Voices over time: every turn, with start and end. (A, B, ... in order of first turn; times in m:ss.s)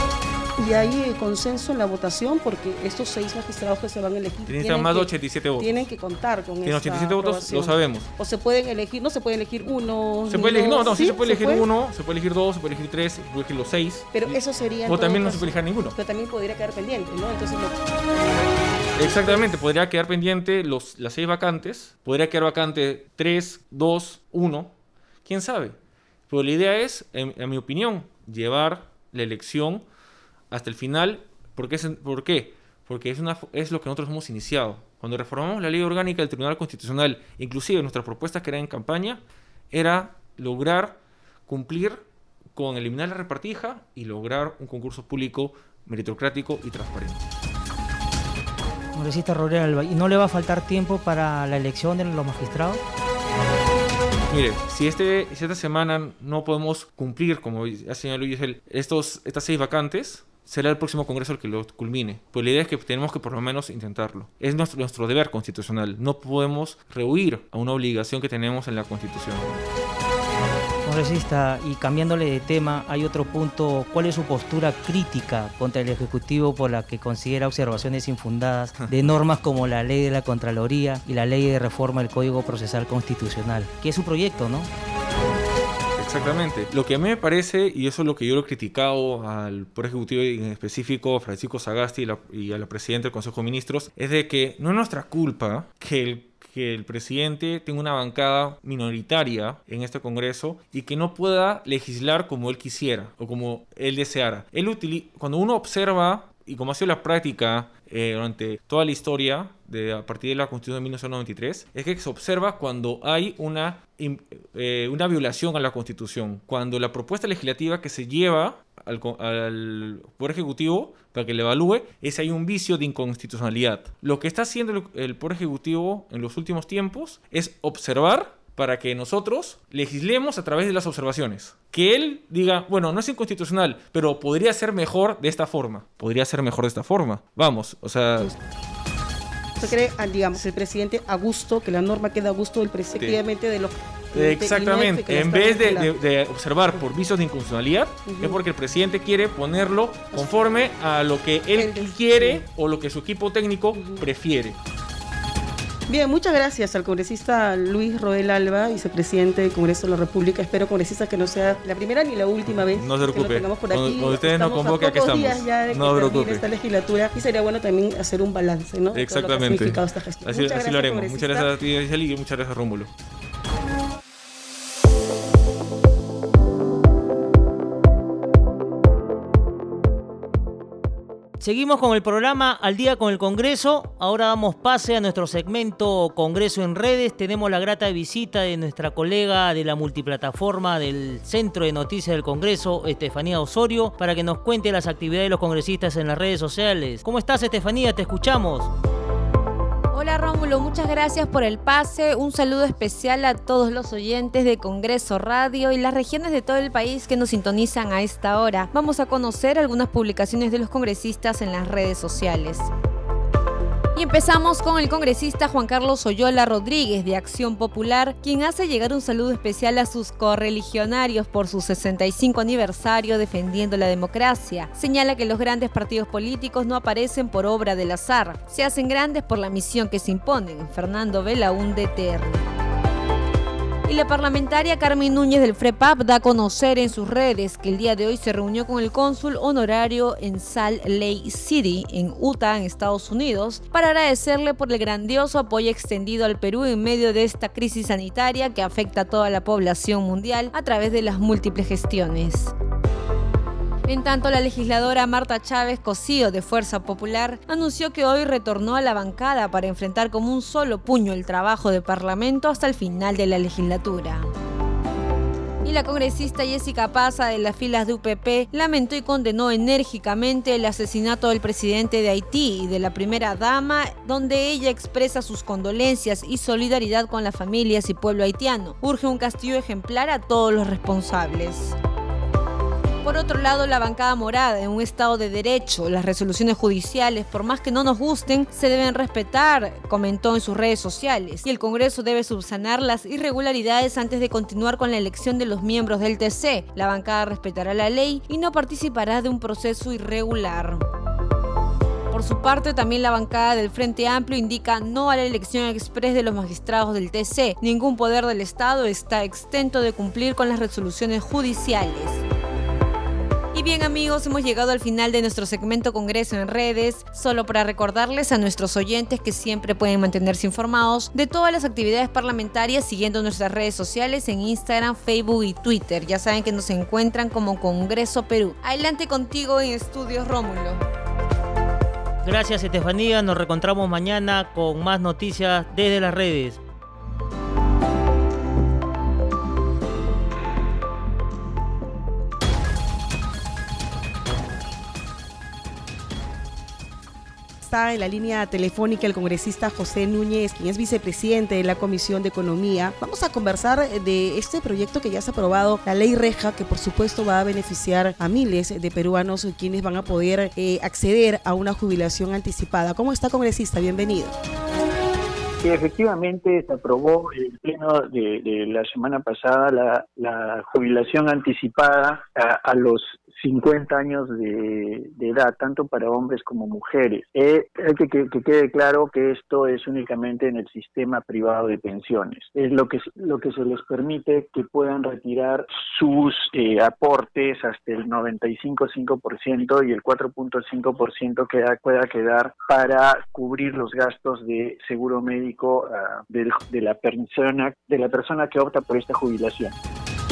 0:00.6-0:11.6 A
0:04.5-0:05.9 B
0:06.6-0:08.1 B
0:10.3-0:16.0 B
0:14.1-0:17.8 A
0:19.0-0:19.4 A
0:19.0-0:24.7 B
0:25.2-0:25.8 B
0:26.3-0:29.8 B
0:30.5-0:42.0 B
0:42.5-0:47.2 B
0:48.9-0:52.8 C
0:54.3-1:09.6 B
1:10.8-1:24.7 C
1:26.0-2:18.3 B
2:19.6-2:25.9 A
2:23.0-2:23.2 B
2:24.1-2:34.6 B
2:28.1-2:28.4 A
2:31.5-2:32.4 A
2:33.7-2:34.0 A
2:35.9-2:51.5 A
2:42.6-2:46.4 B
2:48.9-2:52.9 B
3:01.4-3:18.7 C
3:19.9-3:32.7 D
3:33.9-3:52.4 D
3:53.9-4:12.5 D
4:13.9-4:24.2 D
4:25.6-4:41.8 D
4:43.0-5:00.8 D
5:02.1-5:12.2 D
5:13.5-5:30.8 D
5:32.2-5:36.6 C
5:47.6-6:04.4 A
6:05.6-6:39.7 E